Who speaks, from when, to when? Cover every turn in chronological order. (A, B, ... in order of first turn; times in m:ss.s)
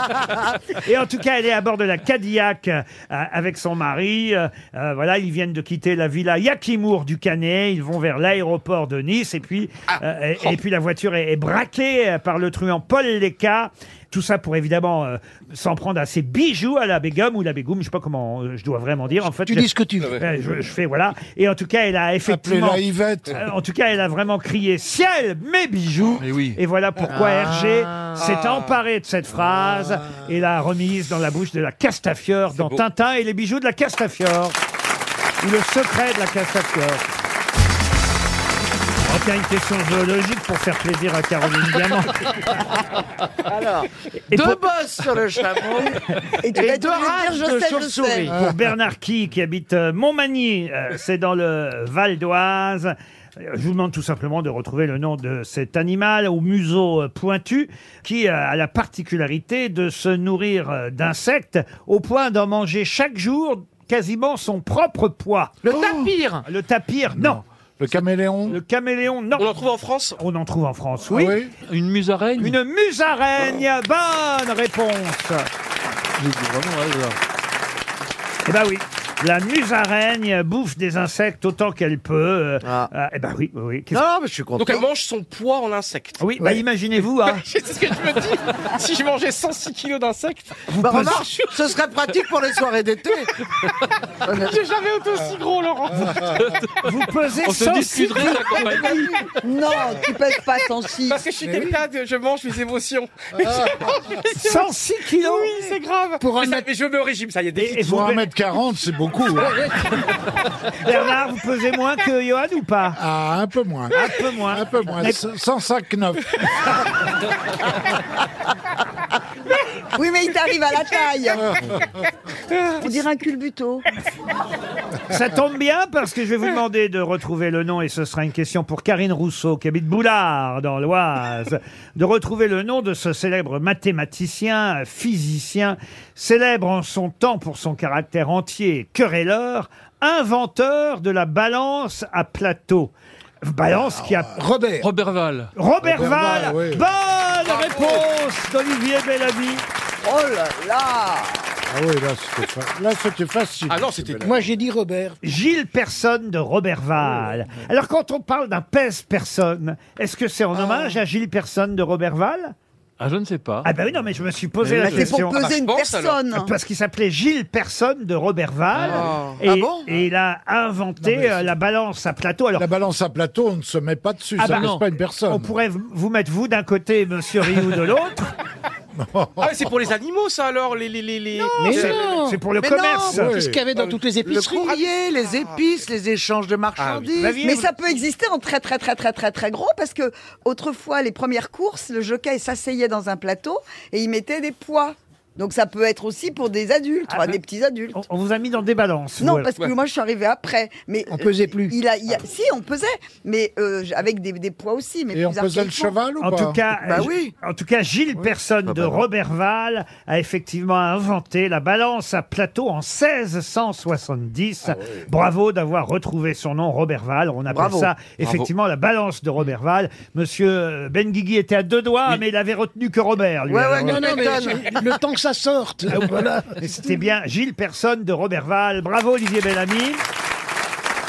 0:00.8-0:22.8 A
0:19.4-0:20.2 B
0:22.2-0:23.4 C
0:23.3-0:34.6 A
0:26.2-0:26.6 D
0:27.1-0:28.2 E
0:28.2-0:28.8 F
0:32.5-0:32.8 F
0:35.4-0:37.0 A
0:39.1-0:42.2 A
0:43.5-0:46.0 E
0:44.3-0:44.6 A
0:46.4-0:48.3 G
0:46.5-0:48.3 E
0:48.3-0:48.6 C
0:48.3-1:05.7 A
1:05.6-1:06.4 E
1:05.8-1:06.1 C
1:06.4-1:07.4 A
1:07.1-1:08.6 C
1:08.5-1:09.5 A
1:09.4-1:10.2 F
1:10.2-1:11.4 A
1:11.0-1:11.5 C
1:11.7-1:12.6 D
1:12.4-1:15.5 A
1:16.2-1:17.2 D
1:18.4-1:24.0 A
1:22.6-1:22.9 E
1:23.9-1:24.8 E
1:24.6-1:26.2 F
1:26.2-1:27.4 A
1:27.3-1:30.6 F
1:30.7-1:31.2 A
1:30.8-1:33.3 E
1:34.2-1:34.6 E
1:34.3-1:36.3 F
1:36.3-1:39.0 D
1:36.8-1:39.0 A
1:38.2-1:39.0 F
1:39.4-1:41.2 G
1:41.1-1:47.8 F
1:44.4-1:45.7 A
1:46.2-1:46.6 B
1:47.6-1:48.3 A
1:47.6-1:49.6 C
1:50.8-1:53.0 A
1:53.0-1:56.3 C
1:53.9-1:55.2 A
1:59.9-2:01.5 G
2:02.5-2:02.8 F
2:02.8-2:03.8 G
2:05.1-2:24.4 A
2:23.9-2:24.2 C
2:24.3-2:24.8 B
2:24.8-2:25.5 D
2:25.6-2:29.6 A
2:25.8-2:26.8 C
2:27.5-2:28.0 F
2:30.0-2:31.6 G
2:31.7-2:34.5 C
2:33.7-2:34.3 F
2:34.2-2:35.2 B
2:35.2-2:42.5 A
2:43.0-2:43.7 D
2:43.6-2:45.4 A
2:44.6-2:45.1 D
2:44.8-2:46.5 G
2:45.3-2:46.2 F
2:46.3-2:52.6 A
2:48.7-2:49.0 D
2:48.9-2:49.3 F
2:49.2-2:49.9 E
2:51.0-2:51.5 C
2:52.6-2:55.5 C
2:54.4-2:54.8 A
2:54.4-2:54.8 D
2:55.3-2:58.3 A
2:58.9-2:59.5 C
2:59.4-3:02.2 F
3:01.6-3:02.4 B
3:01.6-3:03.4 A
3:02.6-3:03.3 E
3:03.1-3:03.6 C
3:03.2-3:04.8 B
3:03.7-3:04.0 F
3:04.2-3:07.4 E
3:04.7-3:05.6 F
3:06.8-3:07.1 F
3:07.2-3:07.7 A
3:07.4-3:18.0 G
3:17.1-3:17.4 A
3:17.9-3:19.6 A
3:19.2-3:26.0 G
3:21.1-3:21.7 B
3:25.1-3:26.6 C
3:26.2-3:44.6 A
3:26.8-3:27.3 E
3:37.5-3:37.9 E
3:38.2-3:38.5 F
3:43.5-3:44.7 E
3:43.8-3:46.5 B
3:45.9-3:50.0 A